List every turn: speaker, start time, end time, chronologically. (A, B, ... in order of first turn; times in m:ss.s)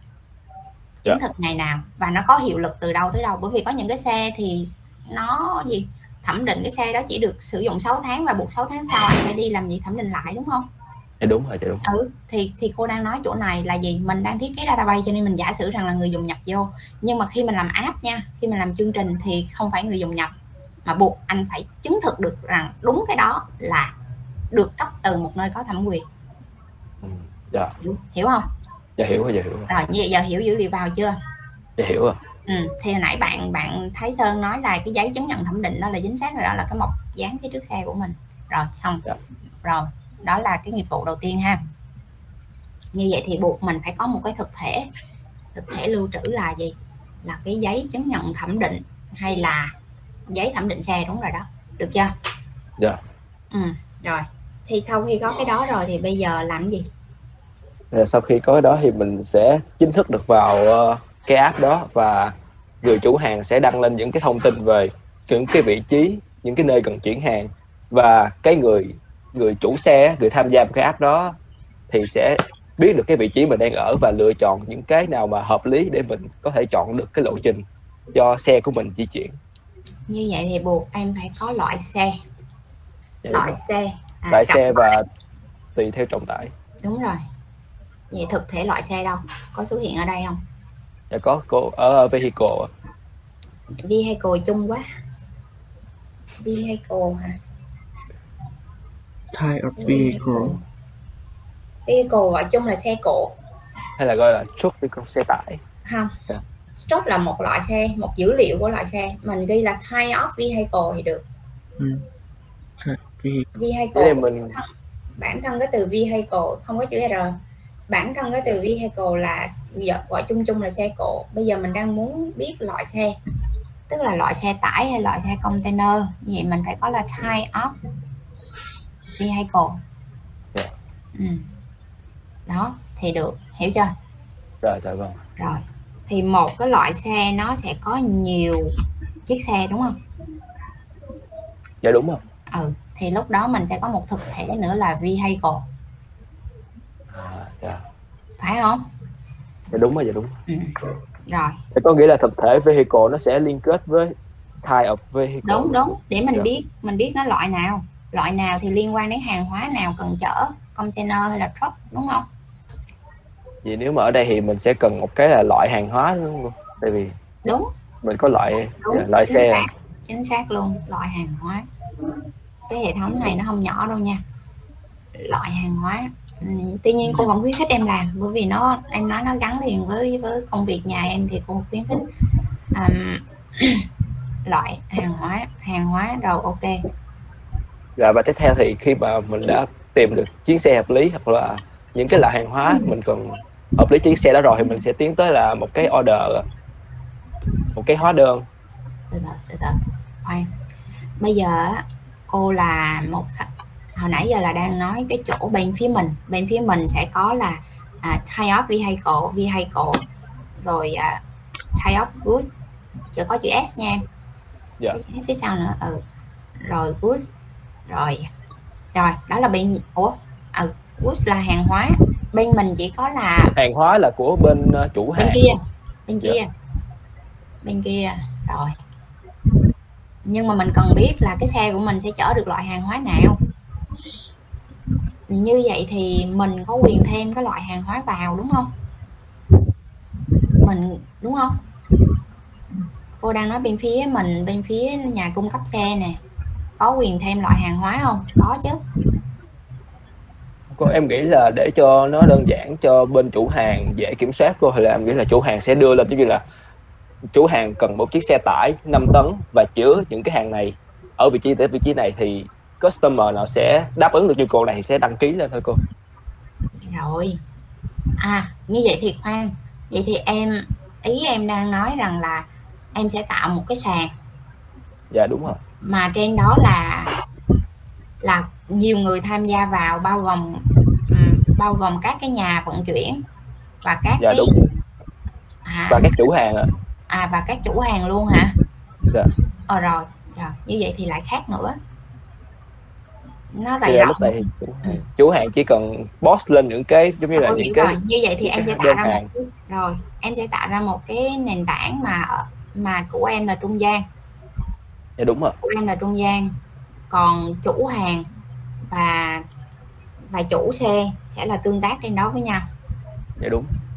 0:01.0-0:10.6 A
0:11.2-0:11.8 B
0:11.8-0:20.3 A
0:20.8-0:23.9 A
0:24.5-0:26.0 A
0:27.0-0:27.7 B
0:27.8-0:28.5 A
0:29.0-0:29.7 B
0:29.7-0:31.2 A
0:31.8-0:32.2 B
0:32.5-0:39.0 A
0:39.6-0:41.6 A
0:42.9-0:44.9 A
0:45.5-0:49.7 A
0:50.3-0:52.1 A
0:53.5-0:56.9 A
0:57.9-1:11.3 B
1:11.9-1:19.4 B
1:20.1-1:22.2 A
1:23.2-1:23.6 B
1:23.3-1:25.0 A
1:24.3-1:25.0 B
1:25.8-1:26.5 B
1:26.8-1:27.2 A
1:28.1-1:30.4 A
1:31.1-1:32.7 B
1:33.8-1:34.8 A
1:36.4-1:37.4 A
1:39.3-1:40.6 C
1:39.8-1:40.6 A
1:41.8-1:43.3 A
1:44.0-1:45.6 B
1:45.8-1:46.1 A
1:46.8-1:51.2 A
1:51.8-1:52.0 C
1:52.8-1:53.4 C
1:53.6-1:54.6 A
1:53.9-1:54.5 B
1:55.2-1:57.4 A
1:57.9-2:03.2 A
2:03.9-2:07.7 A
2:09.2-2:09.8 A
2:11.2-2:11.4 A
2:12.5-2:13.9 A
2:14.6-2:15.2 B
2:15.4-2:18.7 A
2:19.2-2:20.0 A
2:21.8-2:22.2 B
2:22.5-2:25.6 A
2:27.1-2:27.8 B
2:28.4-2:28.8 A
2:29.7-2:30.4 B
2:30.5-2:30.7 A
2:31.3-2:31.6 A
2:31.7-2:35.8 B
2:35.4-2:42.2 A
2:43.6-2:47.1 B
2:47.4-2:47.7 A
2:48.0-2:49.6 B
2:48.8-2:51.6 A
2:52.7-2:54.2 A
2:55.2-3:02.0 A
3:02.7-3:03.8 A
3:04.4-3:06.7 A
3:08.0-3:16.4 B
3:17.7-3:18.4 B
3:19.1-3:20.5 A
3:21.2-3:30.0 A
3:30.6-3:31.2 A
3:31.7-3:32.4 A
3:33.1-3:34.0 A
3:34.9-3:36.0 A
3:36.6-3:37.3 A
3:37.9-3:38.3 A
3:38.9-3:43.5 A
3:43.6-3:45.4 B
3:45.2-3:46.5 A
3:47.6-3:48.8 A
3:50.2-3:53.4 A
3:55.3-3:58.7 A
4:00.6-4:01.6 A
4:03.2-4:06.2 A
4:06.8-4:08.8 A
4:10.7-4:16.4 B
4:17.3-4:25.8 B
4:26.9-4:27.4 A
4:28.2-4:34.1 A
4:35.1-4:35.6 B
4:35.8-4:37.1 A
4:38.2-4:43.2 A
4:43.8-4:44.5 A
4:44.2-4:44.5 B
4:45.6-4:46.1 A
4:45.9-4:46.7 B
4:47.1-4:48.6 A
4:49.7-4:51.8 A
4:53.5-4:55.0 A
4:53.8-4:59.3 B
4:57.3-5:04.0 A
5:05.2-5:05.5 B
5:05.6-5:06.5 A
5:07.1-5:08.2 A
5:08.9-5:09.4 A
5:10.3-5:12.7 A
5:13.4-5:13.7 B